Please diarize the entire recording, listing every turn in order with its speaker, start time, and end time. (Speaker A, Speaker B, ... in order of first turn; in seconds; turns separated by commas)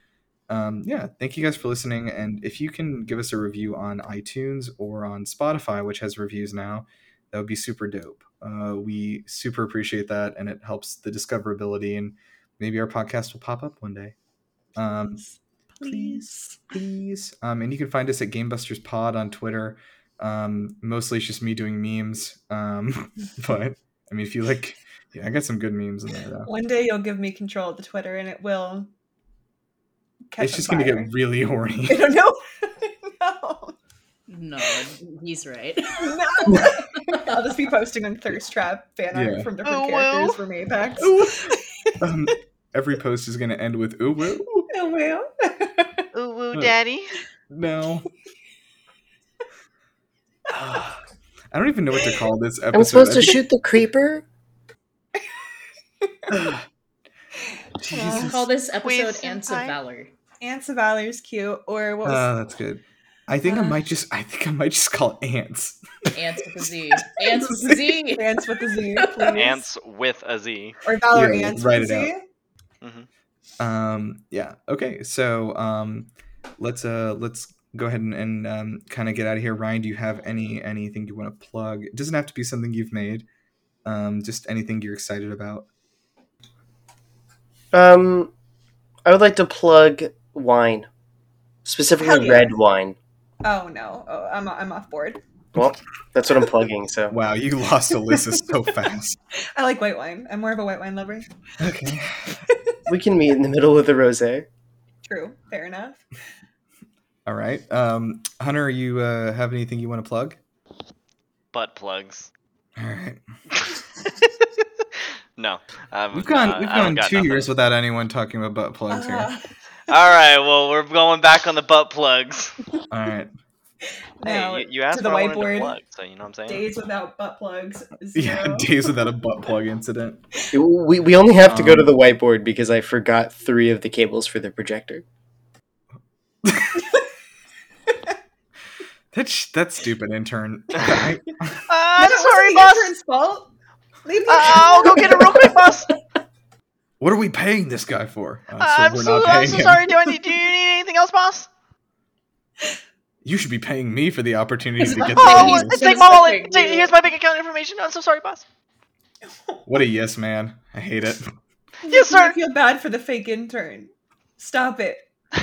Speaker A: 0.5-14.1, Speaker A: 14.8-15.2, Speaker B: 14.8-16.6, Speaker A: 15.8-26.5, Speaker B: 26.4-28.9, Speaker B: 30.3-31.1, Speaker A: 30.4-32.1, Speaker B: 31.9-33.8, Speaker C: 34.3-37.3, Speaker B: 36.0-41.9, Speaker A: 36.5-36.8, Speaker A: 39.1-39.5, Speaker D: 39.6-40.4, Speaker A: 41.0-44.7, Speaker B: 44.7-46.1, Speaker D: 46.1-47.1, Speaker A: 47.5-48.1, Speaker A: 50.5-51.0, Speaker A: 51.5-53.4, Speaker E: 52.7-54.2, Speaker B: 56.0-56.3, Speaker A: 56.3-56.6, Speaker A: 57.8-58.5, Speaker B: 57.9-58.3, Speaker C: 58.1-60.1, Speaker D: 58.8-59.7, Speaker B: 60.4-62.3, Speaker A: 62.0-66.1, Speaker C: 66.1-69.5, Speaker A: 67.3-67.7, Speaker B: 68.1-69.6, Speaker D: 69.3-70.8, Speaker B: 70.8-72.2, Speaker A: 71.1-72.1, Speaker D: 72.8-73.1, Speaker A: 73.6-83.2, Speaker A: 83.8-85.7, Speaker E: 87.7-88.3, Speaker E: 89.0-90.9, Speaker E: 91.6-93.0, Speaker B: 92.0-92.5, Speaker B: 93.4-95.2, Speaker E: 95.5-97.1, Speaker A: 97.1-99.2, Speaker B: 99.5-101.3, Speaker A: 101.6-102.4, Speaker B: 102.5-102.8, Speaker E: 102.9-104.5, Speaker B: 105.1-106.0, Speaker A: 107.2-110.4, Speaker D: 111.5-112.3, Speaker A: 112.8-113.2, Speaker D: 115.4-117.5, Speaker A: 116.1-119.3, Speaker B: 118.9-119.5, Speaker D: 119.9-122.6, Speaker A: 122.9-123.3, Speaker B: 124.2-125.8, Speaker D: 124.2-126.7, Speaker B: 126.5-129.1, Speaker A: 128.1-130.2, Speaker E: 130.5-135.0, Speaker A: 131.4-131.9, Speaker A: 136.4-136.8, Speaker A: 139.1-141.6, Speaker D: 141.7-142.9, Speaker B: 141.9-143.5, Speaker B: 144.0-145.7, Speaker D: 144.3-145.9, Speaker A: 147.0-150.4, Speaker D: 148.6-151.5, Speaker A: 153.2-155.9, Speaker C: 154.8-156.9, Speaker D: 155.1-158.4, Speaker A: 159.7-161.3, Speaker B: 161.8-165.1, Speaker D: 161.9-162.3